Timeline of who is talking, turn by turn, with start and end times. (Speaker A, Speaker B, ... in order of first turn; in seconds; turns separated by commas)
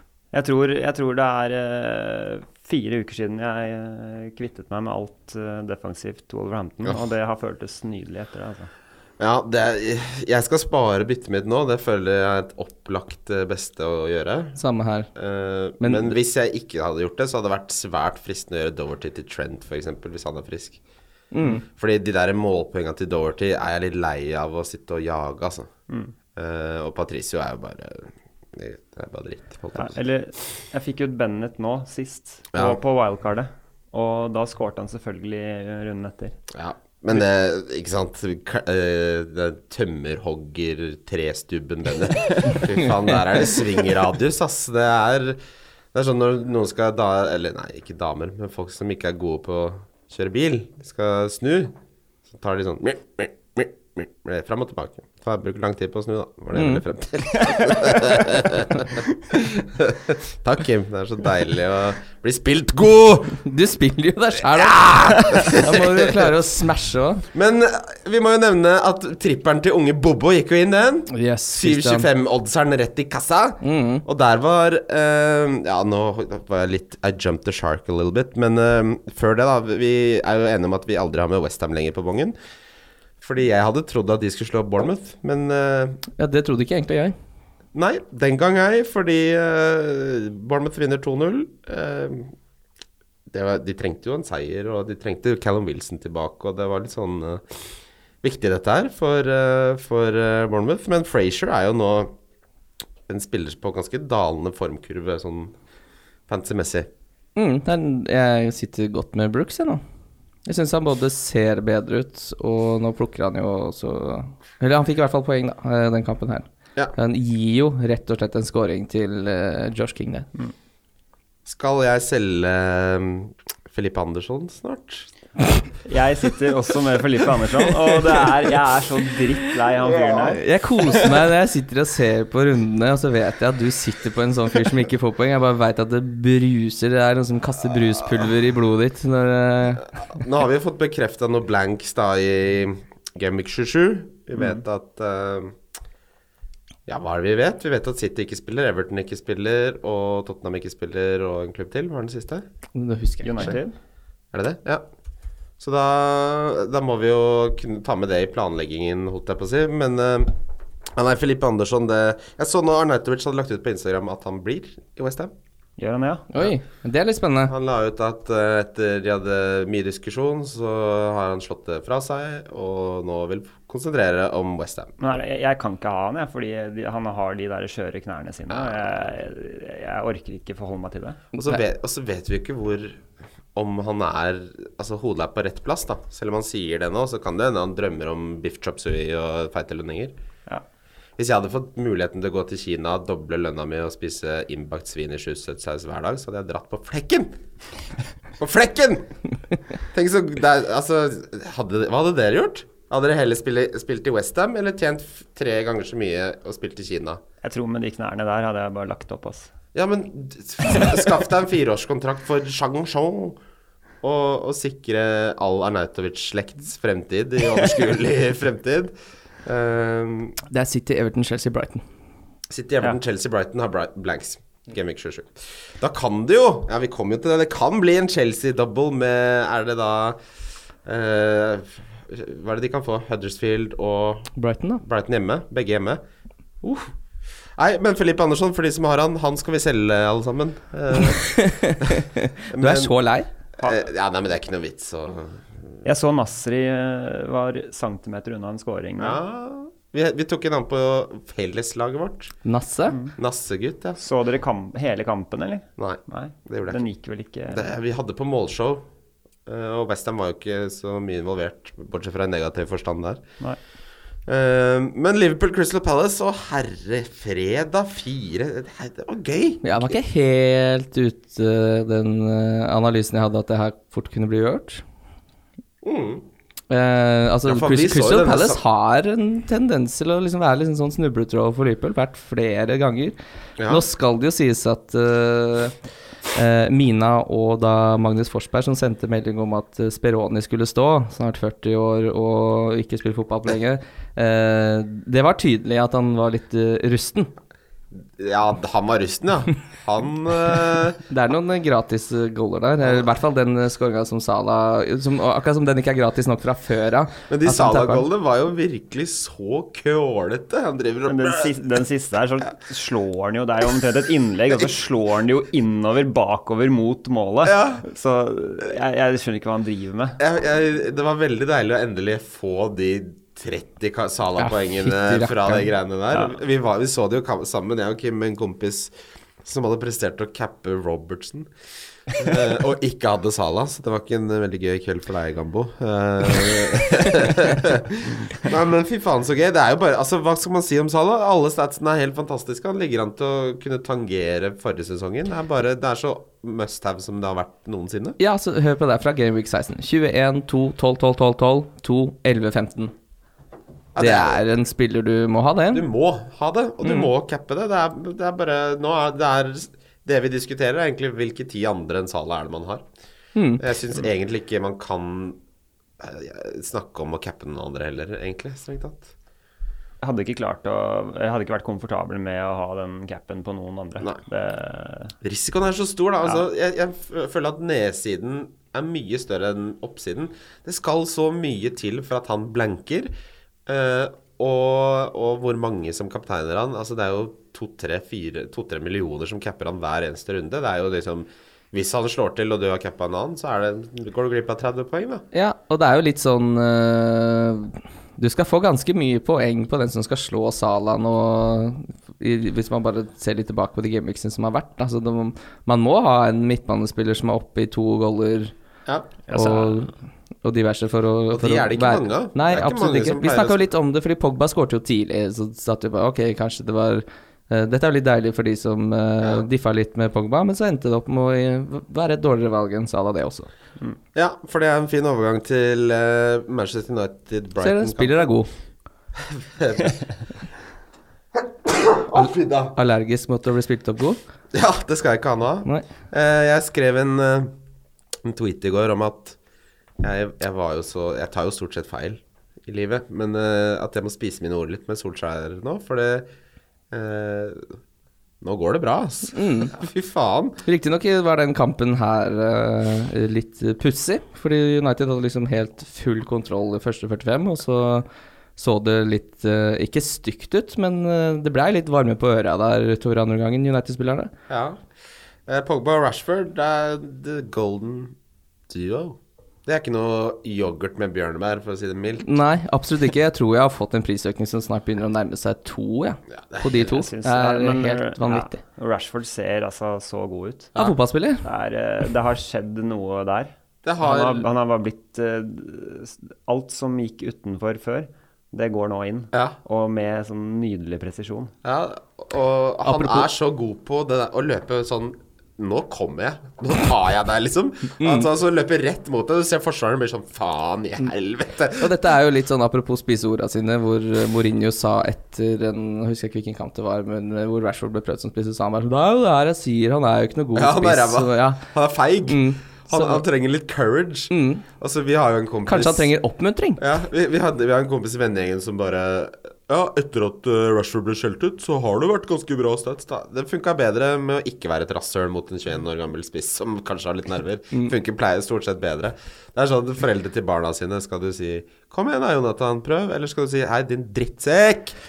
Speaker A: 0.3-8.7, Speaker B: 9.2-14.6, Speaker C: 14.6-15.1, Speaker B: 15.1-20.8, Speaker C: 15.8-16.1, Speaker C: 21.3-21.6, Speaker B: 21.7-25.7, Speaker B: 26.4-30.0, Speaker A: 29.8-36.4, Speaker B: 32.5-32.8, Speaker B: 36.5-45.4, Speaker B: 45.9-51.7, Speaker B: 52.3-63.4, Speaker C: 56.5-56.8, Speaker A: 57.5-57.9, Speaker C: 63.4-67.2, Speaker B: 64.5-66.3, Speaker B: 67.3-82.3, Speaker C: 71.1-72.1, Speaker C: 73.6-74.0, Speaker B: 83.2-86.0, Speaker C: 86.2-87.1, Speaker B: 87.7-92.3, Speaker B: 93.3-97.5, Speaker B: 98.2-102.1, Speaker B: 103.1-105.5, Speaker B: 106.3-106.9, Speaker C: 107.3-109.8, Speaker C: 110.5-120.3, Speaker B: 121.5-125.1, Speaker A: 125.8-131.1, Speaker B: 129.8-130.3, Speaker C: 130.2-139.9, Speaker B: 140.1-145.6, Speaker A: 144.3-144.6, Speaker B: 146.9-152.4, Speaker C: 152.7-153.6, Speaker A: 153.2-153.7, Speaker B: 154.3-154.8, Speaker B: 155.6-160.3, Speaker B: 160.9-165.3, Speaker A: 165.8-166.3, Speaker C: 166.3-167.5, Speaker B: 167.5-174.9, Speaker A: 175.0-181.2, Speaker B: 178.5-178.8, Speaker C: 181.3-181.6, Speaker B: 181.4-183.0, Speaker B: 183.5-190.1, Speaker B: 191.2-197.3, Speaker B: 198.4-199.1, Speaker B: 199.9-207.2, Speaker A: 207.4-209.5, Speaker B: 209.7-213.4, Speaker B: 214.0-220.4, Speaker C: 220.5-221.8, Speaker B: 222.5-230.2, Speaker B: 230.8-234.3, Speaker C: 234.3-234.8, Speaker B: 234.8-236.0, Speaker B: 236.6-236.9, Speaker B: 237.6-242.0, Speaker C: 240.9-243.3, Speaker B: 242.5-242.9, Speaker B: 243.6-245.8, Speaker A: 245.8-249.2, Speaker B: 249.0-252.3, Speaker C: 252.4-253.0, Speaker B: 253.2-254.0, Speaker A: 254.0-257.7, Speaker B: 255.8-256.8, Speaker B: 257.5-258.8, Speaker B: 259.5-263.2, Speaker B: 264.3-269.9, Speaker C: 269.6-274.8, Speaker B: 275.8-276.2, Speaker C: 276.7-283.1, Speaker B: 277.4-278.6, Speaker B: 283.6-283.8, Speaker C: 283.7-285.8, Speaker C: 286.3-297.3, Speaker B: 298.2-301.0, Speaker C: 301.1-308.0, Speaker B: 302.8-303.1, Speaker B: 307.3-311.5, Speaker A: 311.1-320.2, Speaker B: 317.4-317.8, Speaker B: 320.2-331.5, Speaker C: 324.4-325.7, Speaker B: 332.1-348.2, Speaker C: 348.2-352.9, Speaker B: 353.9-354.4, Speaker C: 354.0-355.9, Speaker B: 355.7-362.8, Speaker C: 356.8-357.1, Speaker C: 363.3-363.6, Speaker B: 363.6-365.4, Speaker B: 366.0-369.1, Speaker A: 370.0-375.1, Speaker B: 375.2-383.1, Speaker B: 383.6-395.2, Speaker C: 395.3-408.5, Speaker B: 408.9-409.1, Speaker A: 409.3-409.8, Speaker C: 409.3-409.9, Speaker C: 410.4-423.5, Speaker B: 411.3-413.6, Speaker B: 424.1-428.2, Speaker C: 427.6-428.5, Speaker B: 429.2-429.9, Speaker B: 431.4-432.7, Speaker C: 432.1-434.2, Speaker B: 434.5-437.5, Speaker B: 438.2-439.4, Speaker B: 440.0-446.3, Speaker B: 446.9-447.7, Speaker B: 448.4-450.6, Speaker C: 449.3-449.7, Speaker C: 450.6-464.3, Speaker B: 464.5-464.8, Speaker B: 465.5-468.1, Speaker B: 468.7-472.4, Speaker C: 472.2-478.6, Speaker B: 476.3-477.0, Speaker A: 476.9-480.8, Speaker C: 480.8-481.4, Speaker A: 481.4-491.5, Speaker B: 483.8-484.4, Speaker B: 491.6-501.9, Speaker C: 492.8-493.3, Speaker C: 498.0-498.3, Speaker C: 501.7-511.6, Speaker B: 510.5-516.1, Speaker C: 512.2-513.2, Speaker C: 514.3-514.6, Speaker C: 515.6-516.8, Speaker B: 516.8-535.0